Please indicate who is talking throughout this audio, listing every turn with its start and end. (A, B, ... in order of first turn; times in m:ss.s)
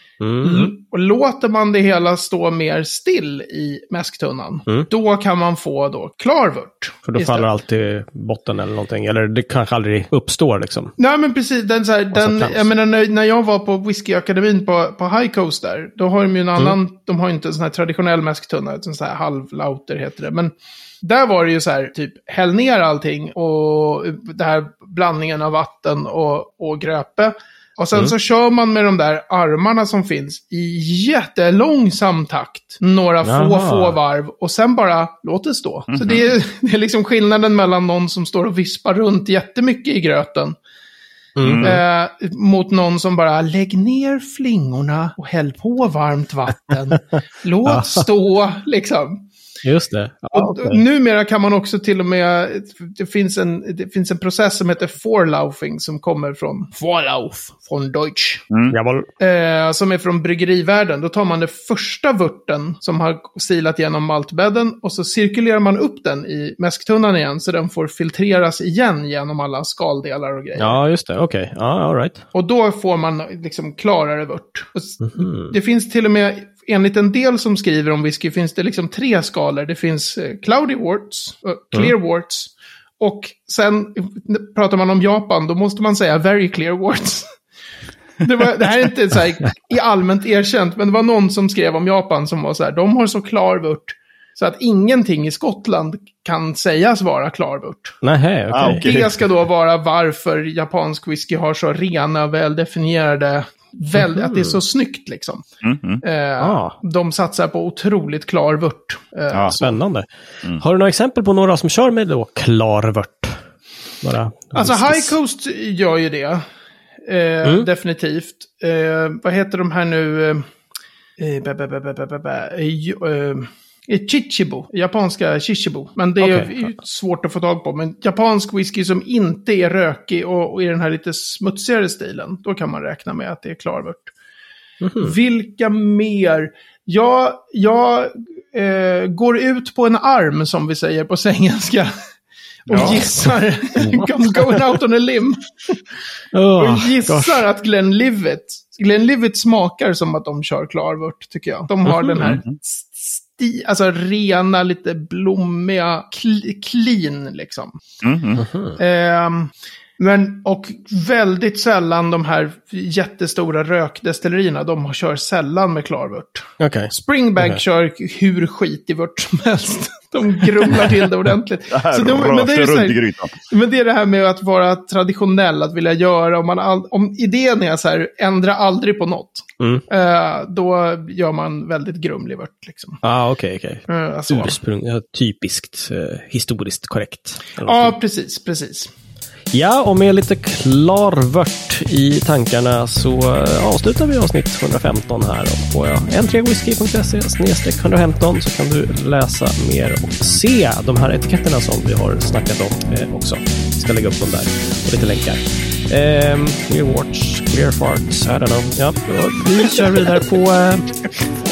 0:00.2-0:00.7 A
0:00.4-0:07.5 B
0:07.1-0:11.0 A
0:11.0-0:40.6 B
0:12.1-0:12.7 A
0:33.2-0:34.0 A
0:35.9-0:36.3 C
0:41.4-0:41.8 A
0:41.4-0:41.8 C
0:41.6-0:49.2 B
0:47.6-0:48.0 A
0:49.6-0:50.8 A
0:50.3-0:58.4 B
0:58.5-0:58.8 C
0:58.7-0:59.1 A
0:59.2-1:10.8 B
1:10.6-1:12.2 A
1:12.3-1:27.3 B
1:15.0-1:15.5 A
1:28.2-1:38.0 B
1:38.0-1:38.9 A
1:38.5-1:39.2 C
1:38.6-1:45.4 B
1:44.0-1:44.5 A
1:45.6-1:46.0 C
1:46.0-1:49.8 B
1:46.4-1:46.8 A
1:49.5-1:50.1 A
1:50.6-1:53.4 A
1:54.0-1:55.2 A
1:54.5-1:56.4 B
1:57.0-2:00.4 B
2:01.2-2:14.1 B
2:06.2-2:06.5 A
2:14.8-2:15.2 A
2:15.0-2:21.9 B
2:22.7-2:25.8 B
2:22.7-2:23.3 A
2:23.8-2:24.4 A
2:26.3-2:27.5 A
2:26.6-2:37.8 B
2:31.9-2:32.3 A
2:32.2-2:32.6 C
2:38.0-2:38.5 C
2:38.4-2:38.7 A
2:38.8-3:03.0 B
2:46.6-2:47.6 A
2:51.7-2:53.3 C
3:03.0-3:07.9 A
3:03.9-3:04.6 B
3:07.6-3:08.9 B
3:09.5-3:31.0 A